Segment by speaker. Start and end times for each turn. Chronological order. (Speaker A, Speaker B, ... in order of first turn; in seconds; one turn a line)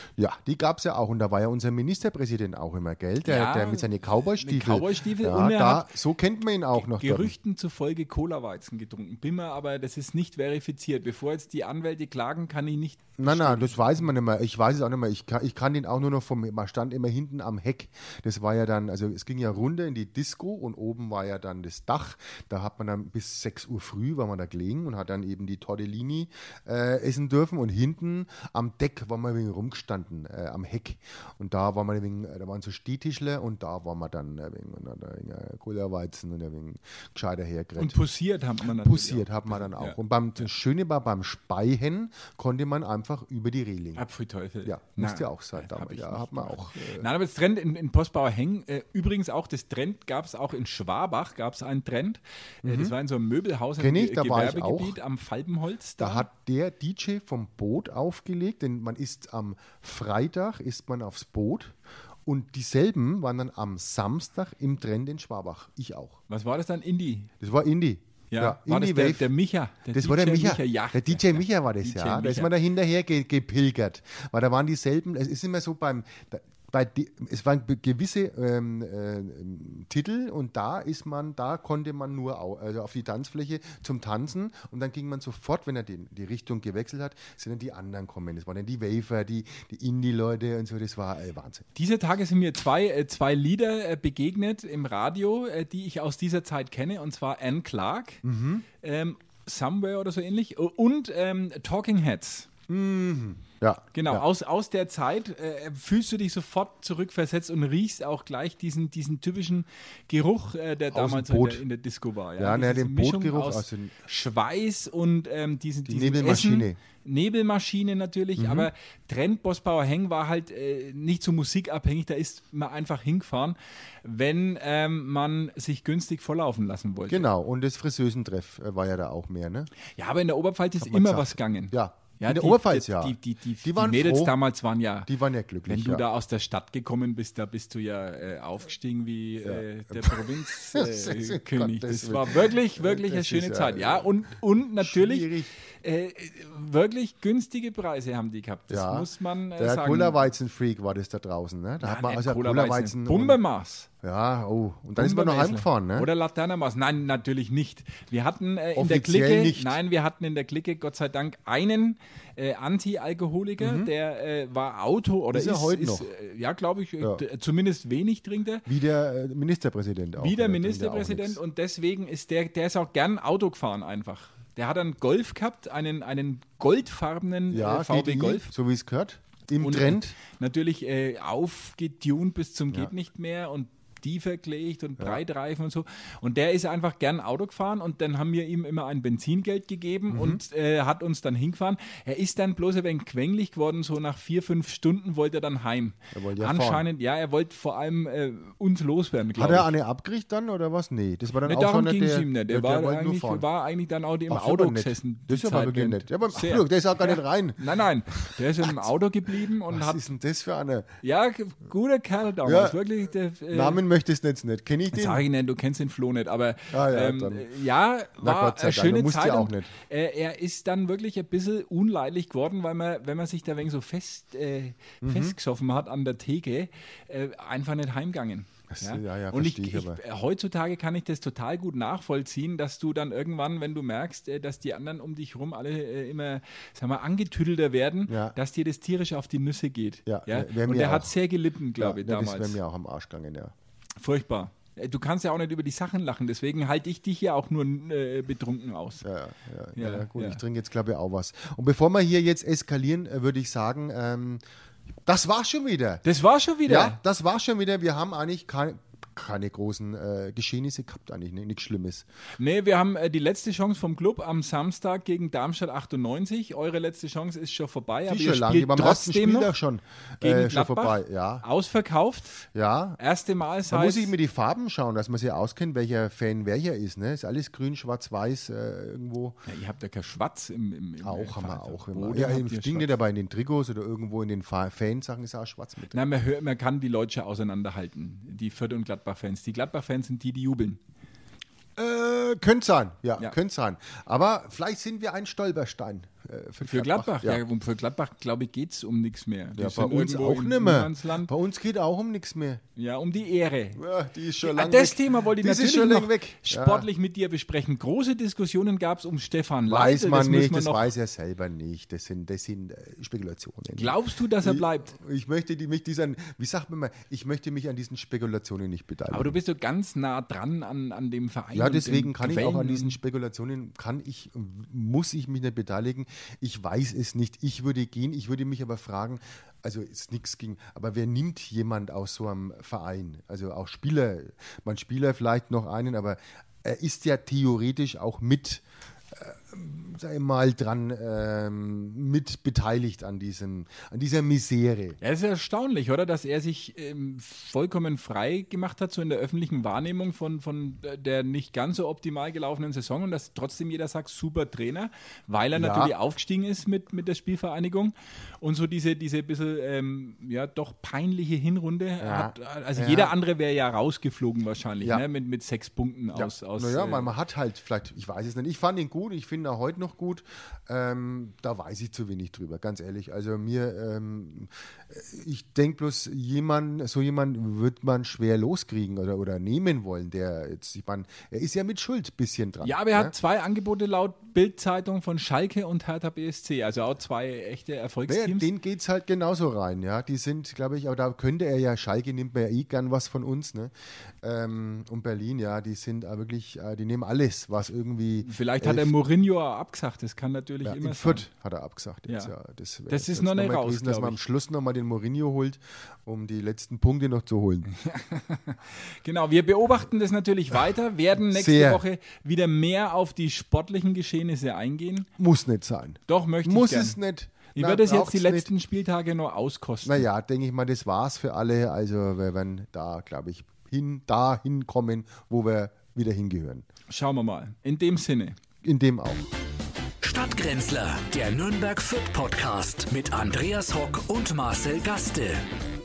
Speaker A: 0.2-7.3
Speaker B: 3.2-5.9
Speaker B: 6.7-13.8
Speaker A: 13.2-38.0
Speaker B: 37.8-40.0
Speaker A: 38.6-44.0
Speaker B: 44.0-56.3
Speaker A: 44.6-47.1
Speaker A: 52.6-52.9
Speaker A: 53.8-55.0
Speaker A: 56.0-66.2
Speaker B: 66.3-67.3
Speaker A: 67.4-69.3
Speaker B: 68.3-72.5
Speaker A: 69.9-91.6
Speaker B: 91.7-98.2
Speaker A: 98.2-98.7
Speaker B: 98.8-102.5
Speaker A: 102.7-104.2
Speaker B: 103.9-127.3
Speaker A: 110.9-111.6
Speaker A: 112.4-113.9
Speaker A: 115.9-116.8
Speaker A: 118.4-118.7
Speaker A: 127.1-129.7
Speaker B: 129.9-135.1
Speaker A: 130.8-134.4
Speaker A: 135.1-136.0
Speaker B: 135.7-150.2
Speaker A: 139.4-144.2
Speaker A: 144.8-145.5
Speaker A: 148.7-153.4
Speaker B: 151.8-153.9
Speaker A: 154.0-156.1
Speaker B: 154.9-168.7
Speaker A: 158.8-159.8
Speaker A: 163.6-163.9
Speaker A: 165.3-166.1
Speaker A: 168.7-171.4
Speaker B: 170.2-178.5
Speaker A: 177.5-180.1
Speaker B: 179.6-199.7
Speaker A: 190.1-190.4
Speaker A: 196.1-196.8
Speaker A: 199.4-203.4
Speaker B: 201.4-210.0
Speaker A: 204.3-208.9
Speaker A: 209.7-210.9
Speaker B: 211.0-213.8
Speaker A: 212.4-212.8
Speaker A: 213.5-215.2
Speaker B: 214.9-242.6
Speaker A: 216.7-217.5
Speaker A: 218.2-219.7
Speaker A: 225.0-225.4
Speaker A: 228.7-230.0
Speaker A: 238.1-238.4
Speaker A: 240.1-241.1
Speaker A: 241.8-243.5
Speaker B: 244.0-249.1
Speaker A: 249.0-254.4
Speaker B: 249.8-250.4
Speaker A: 255.1-256.0
Speaker B: 256.0-257.0
Speaker A: 256.7-262.1
Speaker B: 262.4-269.6
Speaker A: 268.1-271.4
Speaker B: 270.2-272.4
Speaker A: 272.5-273.0
Speaker B: 273.0-274.1
Speaker A: 273.7-279.4
Speaker B: 279.4-282.9
Speaker A: 281.0-286.0
Speaker B: 285.9-290.8
Speaker A: 291.8-297.4
Speaker B: 296.6-301.3
Speaker A: 299.6-302.6
Speaker B: 302.8-303.8
Speaker A: 303.7-306.9
Speaker B: 304.4-310.9
Speaker A: 309.7-319.4
Speaker B: 313.7-314.9
Speaker B: 319.1-323.0
Speaker A: 321.5-345.0
Speaker B: 345.0-367.1
Speaker A: 355.6-355.9
Speaker A: 362.0-363.1
Speaker A: 366.1-383.1
Speaker B: 382.6-388.5
Speaker A: 388.1-398.9
Speaker B: 398.2-401.3
Speaker A: 400.6-407.7
Speaker B: 402.9-404.2
Speaker B: 407.7-415.1
Speaker A: 411.1-411.8
Speaker A: 415.2-418.5
Speaker B: 416.1-417.0
Speaker B: 417.6-420.1
Speaker A: 419.8-426.7
Speaker B: 426.9-428.4
Speaker A: 428.6-429.3
Speaker C: 430.0-435.4